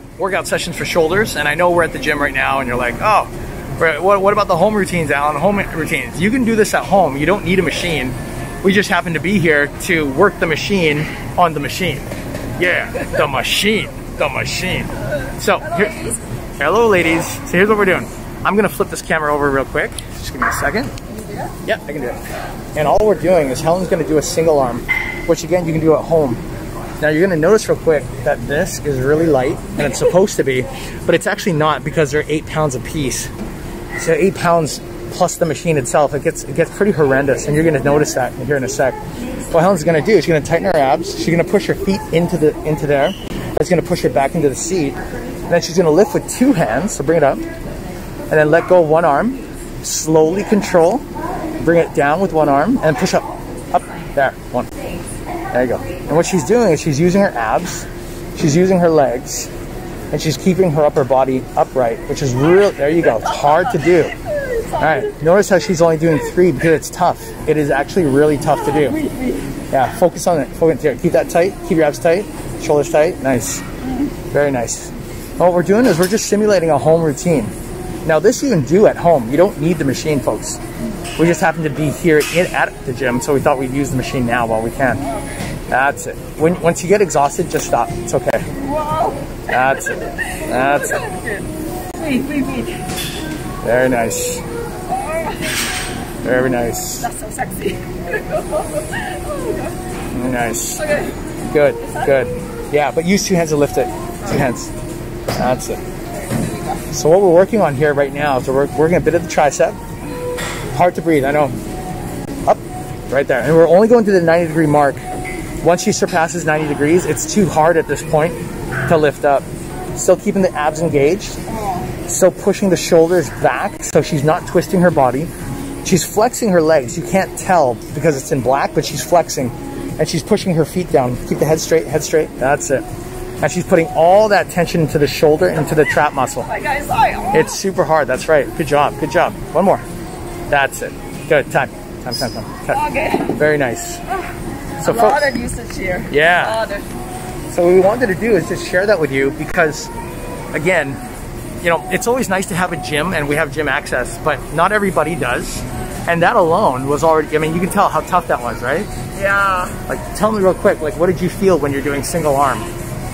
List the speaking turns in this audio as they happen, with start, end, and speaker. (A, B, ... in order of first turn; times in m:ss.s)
0:00.2-0:12.1 A
0:12.6-0:16.0 A
0:15.6-0:16.2 B
0:16.6-0:20.9 A
0:21.1-0:21.6 B
0:21.6-0:22.2 A
0:22.7-0:26.4 A
0:27.0-0:33.3 A
0:34.0-0:39.0 A
0:39.5-0:45.0 A
0:45.5-0:47.4 A
0:48.3-0:51.0 A
0:51.6-0:54.7 A
0:55.5-0:59.5 A
1:00.1-1:04.1 A
1:03.2-1:05.0 B
1:04.8-1:09.0 A
1:08.8-1:09.4 B
1:09.7-1:13.6 A
1:14.3-1:17.5 A
1:18.0-1:20.6 A
1:21.2-1:25.0 A
1:25.7-1:28.5 A
1:28.5-1:32.8 B
1:29.5-1:31.0 A
1:33.6-1:34.4 A
1:34.9-1:35.5 B
1:36.2-1:37.1 A
1:37.0-1:39.8 B
1:40.1-1:40.8 A
1:40.7-1:41.2 B
1:41.4-1:44.7 A
1:41.8-1:42.2 B
1:45.4-1:45.8 A
1:46.1-1:46.8 B
1:46.9-1:49.8 A
1:50.7-1:51.5 A
1:52.4-1:55.0 A
1:55.6-2:01.4 A
2:02.0-2:05.3 A
2:05.8-2:12.8 A
2:13.4-2:16.5 A
2:16.4-2:17.5 B
2:17.3-2:19.8 A
2:20.5-2:24.0 A
2:22.7-2:23.4 B
2:24.8-2:25.3 A
2:24.8-2:26.9 B
2:26.1-2:26.6 A
2:27.5-2:29.9 A
2:30.5-2:31.0 A
2:31.6-2:38.9 A
2:39.1-2:39.8 B
2:39.9-2:42.7 A